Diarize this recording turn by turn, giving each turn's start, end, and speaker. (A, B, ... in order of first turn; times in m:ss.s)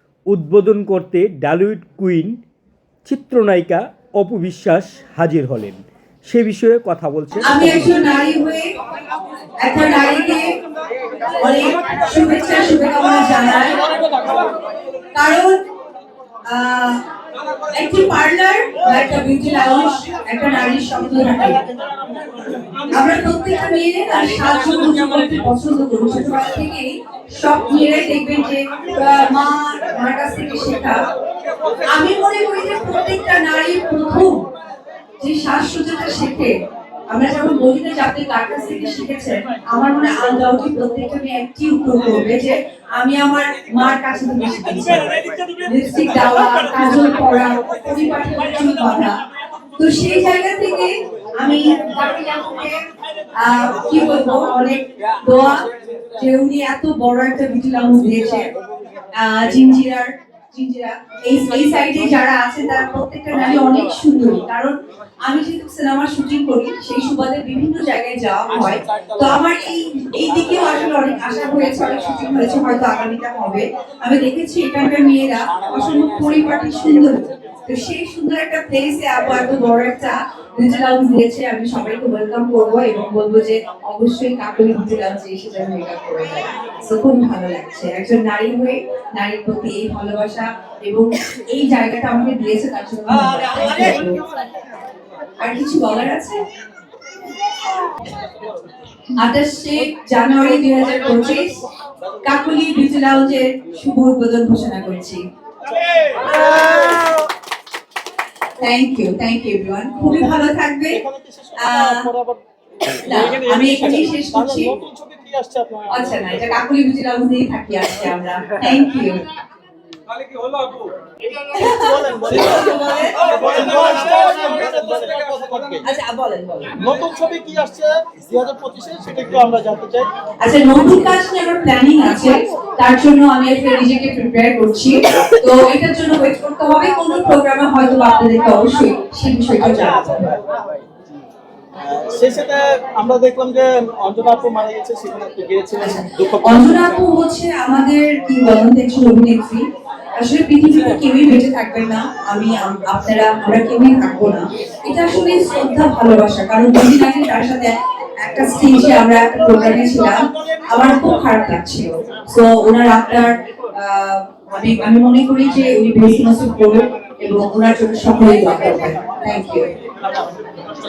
0:00.3-0:02.4 A
0:03.0-0:07.9 A
0:07.4-0:08.7 B
0:09.6-0:10.5 B
0:11.4-0:13.8 B
0:15.1-0:15.6 B
0:16.5-0:17.0 B
0:17.7-0:21.6 B
0:22.9-0:31.0 B
0:31.9-0:34.4 B
0:35.2-0:36.5 B
0:37.1-0:49.2 B
0:49.8-0:52.8 B
0:53.4-0:58.5 B
0:59.1-1:34.2 B
1:35.4-1:36.4 B
1:39.2-1:41.6 B
1:42.2-1:45.2 B
1:48.6-1:51.0 B
1:50.9-1:52.4 C
1:51.6-1:52.1 B
1:53.0-1:54.8 B
1:53.5-1:56.4 C
1:55.9-1:59.2 B
2:01.4-2:05.9 C
2:01.5-2:03.4 B
2:05.8-2:06.8 B
2:06.8-2:10.1 C
2:10.4-2:20.3 B
2:21.8-2:26.8 C
2:25.8-2:29.6 B
2:30.2-2:49.7 B
2:39.7-2:41.1 C